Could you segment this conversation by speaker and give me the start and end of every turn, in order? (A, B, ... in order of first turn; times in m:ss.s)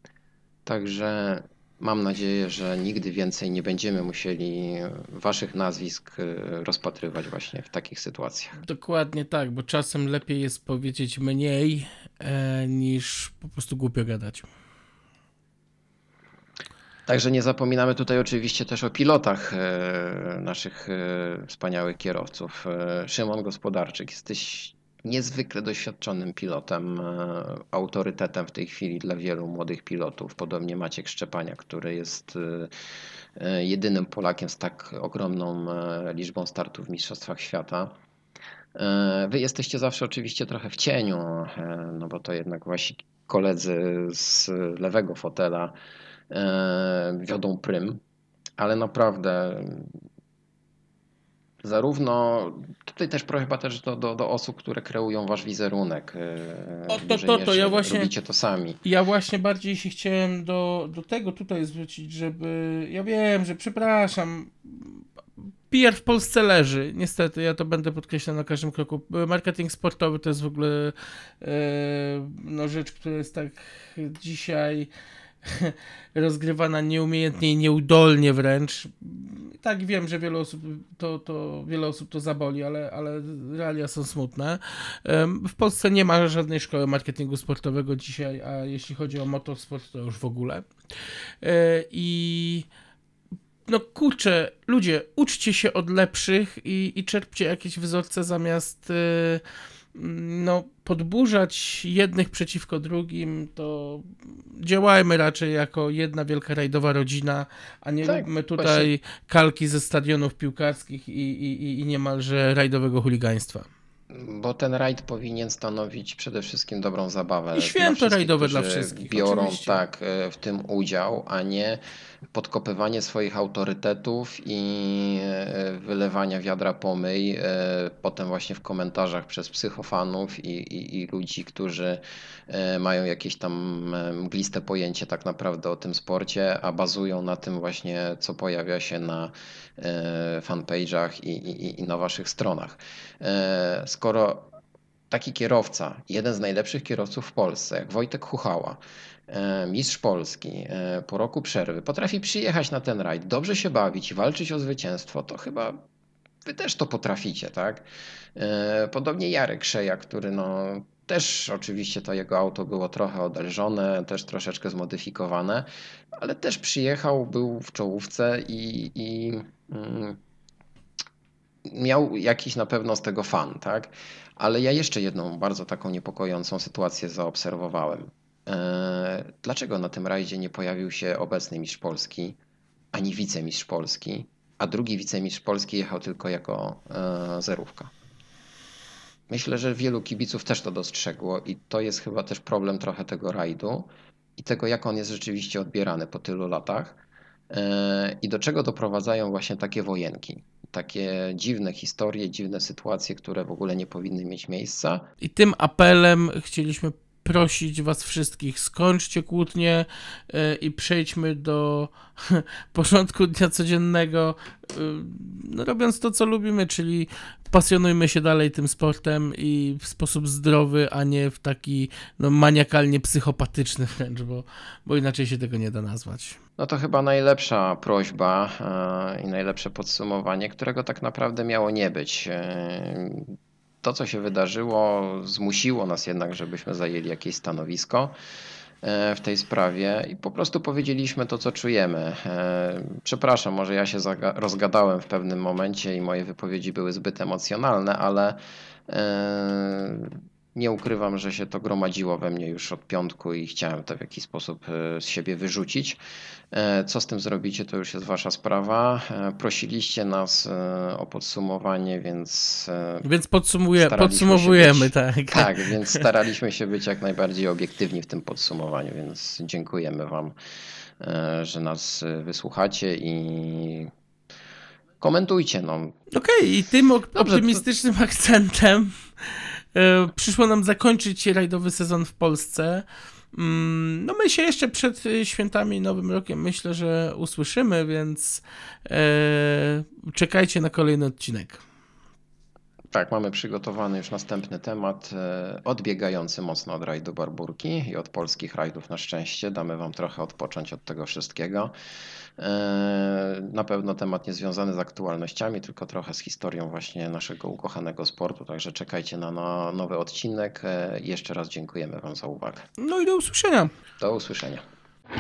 0:00.7-0:08.6 A
0:08.6-0:14.5 B
0:17.1-0:32.7 A
0:33.4-0:38.0 A
0:38.8-0:45.7 A
0:46.3-0:48.0 A
0:48.6-0:50.0 A
0:51.6-0:58.8 A
0:56.9-0:58.1 B
0:58.8-1:05.0 B
1:05.7-1:14.9 B
1:15.4-1:30.7 B
1:31.4-1:32.7 B
1:33.7-1:39.4 B
1:39.9-1:53.7 B
1:48.0-1:48.9 A
1:54.1-2:01.8 A
1:57.5-1:59.8 B
2:02.3-2:24.5 A
2:25.1-2:35.8 A
2:36.4-2:50.2 A
2:51.6-3:02.4 A
3:02.9-3:07.9 A
3:09.3-3:17.0 A
3:17.5-3:25.1 A
3:25.2-3:46.4 B
3:46.6-3:58.1 A
3:58.8-4:16.0 A
4:16.5-4:23.1 A
4:23.0-4:26.0 B
4:23.8-4:30.4 A
4:31.0-4:33.9 A
4:35.0-4:36.0 A
4:36.1-4:51.6 B
4:37.2-4:37.6 A
4:52.9-5:01.7 A
5:02.4-5:12.7 A
5:12.8-5:13.7 B
5:14.0-5:14.6 A